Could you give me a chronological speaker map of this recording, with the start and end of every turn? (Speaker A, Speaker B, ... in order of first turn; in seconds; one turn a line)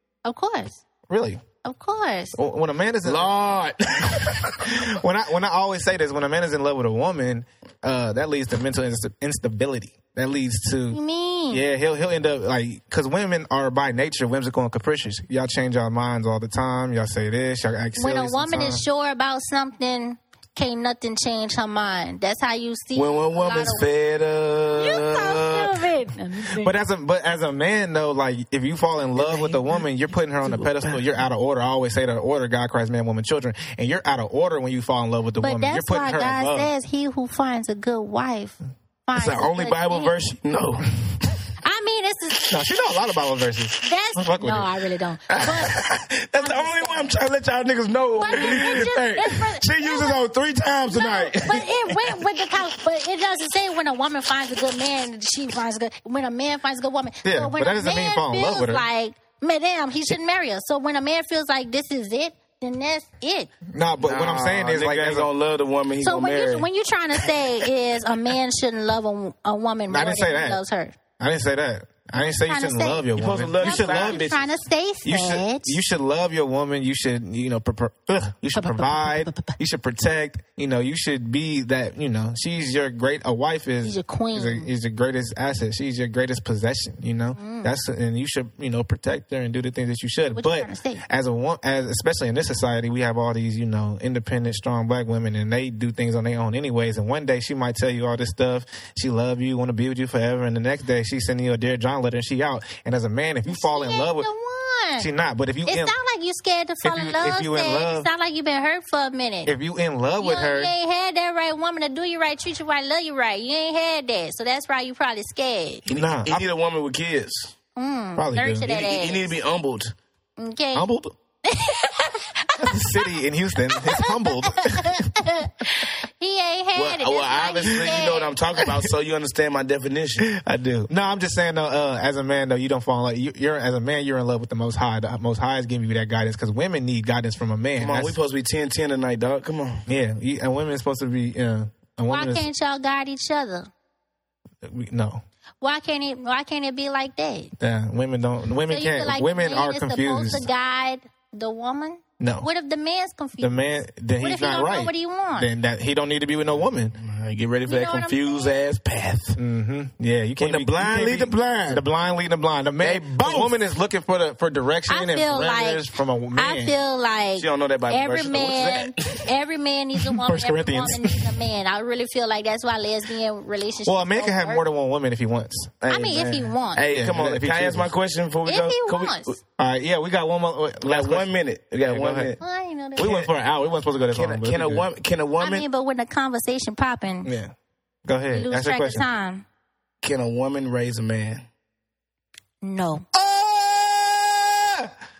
Speaker A: 0.2-0.8
Speaker B: 1.1-1.4
Speaker A: 1.6-2.4
Speaker B: 2.4-3.3
Speaker C: 3.0-4.9
Speaker B: 4.6-11.0
Speaker A: 10.9-11.6
Speaker B: 11.5-18.8
Speaker A: 18.0-23.9
Speaker C: 22.9-25.8
Speaker A: 24.8-26.8
Speaker B: 26.5-36.7
Speaker C: 29.2-29.6
Speaker C: 30.5-31.0
Speaker A: 35.4-40.1
Speaker C: 39.2-41.4
Speaker A: 41.6-42.5
Speaker B: 42.5-44.7
Speaker A: 43.8-47.1
Speaker C: 45.3-52.2
Speaker A: 48.2-50.2
Speaker A: 50.9-63.5
Speaker B: 57.2-58.9
Speaker B: 63.7-65.3
Speaker C: 64.0-66.7
Speaker A: 66.0-71.0
Speaker B: 69.9-70.6
Speaker B: 71.2-74.3
Speaker A: 72.1-73.1
Speaker C: 73.2-74.5
Speaker A: 73.6-75.8
Speaker B: 75.0-104.3
Speaker A: 78.5-79.6
Speaker A: 83.8-84.7
Speaker A: 87.4-87.7
Speaker A: 90.3-91.0
Speaker A: 103.5-105.1
Speaker B: 105.0-106.0
Speaker A: 105.7-109.5
Speaker B: 106.8-108.1
Speaker B: 109.5-110.7
Speaker A: 110.2-115.8
Speaker C: 115.9-117.5
Speaker B: 115.9-116.5
Speaker A: 117.8-119.4
Speaker B: 118.2-118.7
Speaker C: 118.7-119.9
Speaker A: 120.4-120.9
Speaker B: 120.8-121.2
Speaker A: 121.5-123.1
Speaker B: 122.6-125.2
Speaker A: 123.7-128.3
Speaker C: 126.8-130.3
Speaker B: 130.2-138.2
Speaker C: 137.8-139.8
Speaker B: 139.9-142.5
Speaker A: 142.1-143.7
Speaker B: 144.6-145.2
Speaker A: 145.6-147.5
Speaker B: 147.6-150.5
Speaker A: 148.7-153.6
Speaker B: 152.2-152.5
Speaker B: 153.4-157.0
Speaker A: 154.2-155.5
Speaker C: 156.9-159.4
Speaker A: 157.7-158.6
Speaker B: 159.4-166.7
Speaker C: 160.4-161.8
Speaker C: 162.8-163.6
Speaker A: 164.9-174.7
Speaker C: 167.4-169.2
Speaker B: 170.1-171.4
Speaker B: 173.8-175.8
Speaker C: 175.8-179.4
Speaker A: 175.9-176.8
Speaker B: 176.9-177.9
Speaker A: 178.5-179.4
Speaker B: 179.6-181.3
Speaker C: 180.8-182.4
Speaker B: 181.9-182.4
Speaker A: 182.4-183.1
Speaker C: 183.0-183.3
Speaker B: 183.0-184.9
Speaker C: 184.1-185.7
Speaker A: 185.4-187.3
Speaker B: 187.2-187.5
Speaker B: 188.1-189.1
Speaker A: 188.3-189.4
Speaker C: 190.0-191.4
Speaker A: 192.6-193.1
Speaker C: 193.2-194.7